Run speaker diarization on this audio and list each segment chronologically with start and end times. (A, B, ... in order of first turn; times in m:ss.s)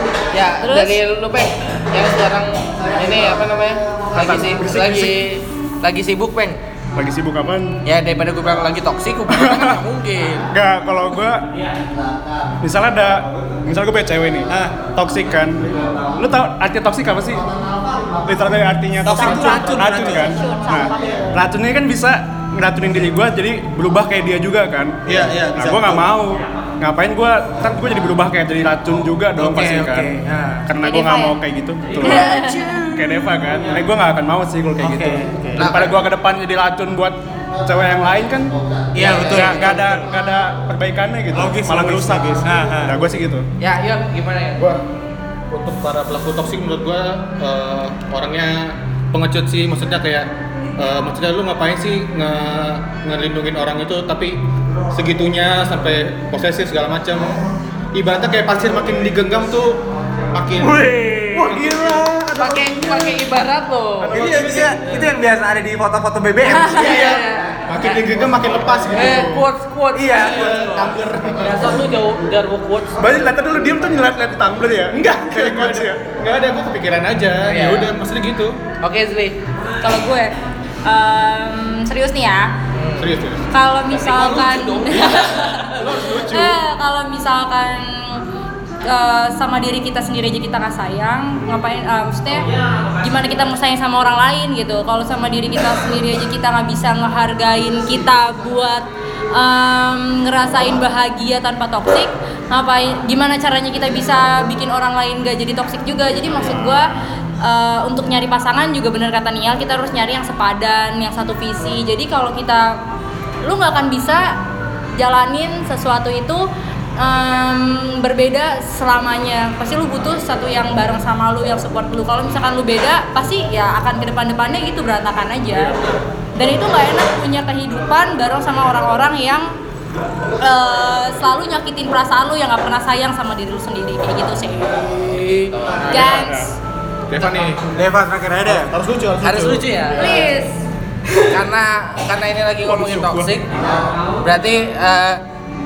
0:00.3-0:06.6 A
0:00.6-0:01.0 B
0:04.2-0:05.2 C
0:07.0-0:07.8 C
0:07.8-0:10.5 A
0:09.3-0:09.8 C
0:10.5-0:11.4 C
0:12.6-0:17.5 C
0:14.5-0:14.8 D
0:18.2-0:25.0 C
0:19.0-0:20.4 D
0:19.1-0:21.4 B
0:25.1-0:26.0 D
0:25.6-0:30.1 C
0:29.4-0:30.7 D
0:30.7-0:43.4 C
0:30.8-0:31.4 B
0:32.0-0:32.9 B
0:32.0-0:33.1 D
0:34.8-0:35.9 D
0:35.6-0:36.0 A
0:39.0-0:40.1 D
0:39.0-0:39.9 A
0:41.3-0:43.0 D
0:43.6-0:44.6 A
0:44.6-0:44.8 E
0:45.5-0:54.4 E
0:54.9-0:57.4 E
0:57.9-1:00.8 E
1:00.6-1:03.2 D
1:01.4-1:02.0 E
1:02.4-1:04.6 A
1:04.0-1:04.8 C
1:04.1-1:07.2 D
1:06.5-1:08.0 A
1:06.5-1:07.3 B
1:07.7-1:09.4 E
1:08.9-1:13.3 A
1:09.9-1:11.4 D
1:10.2-1:11.7 E
1:13.0-1:16.0 C
1:14.9-1:18.6 E
1:17.4-1:17.9 A
1:18.8-1:19.4 A
1:19.8-1:22.5 B
1:22.7-1:23.1 A
1:23.0-1:23.4 E
1:23.5-1:28.3 B
1:23.9-1:26.1 A
1:25.9-1:26.4 C
1:25.9-1:26.5 E
1:28.8-1:52.7 B
1:53.4-1:54.3 B
1:55.0-1:56.4 B
1:57.0-2:05.8 B
2:05.5-2:06.0 E
2:06.4-2:09.5 B
2:10.3-2:15.0 B
2:14.8-2:16.2 A
2:15.8-2:16.2 E
2:15.9-2:16.5 B
2:15.9-2:16.5 C
2:17.1-2:17.6 E
2:17.7-2:18.7 D
2:18.5-2:20.3 E
2:19.2-2:20.3 A
2:20.0-2:20.6 B
2:21.3-2:23.5 A
2:22.6-2:23.3 C
2:24.2-2:25.2 A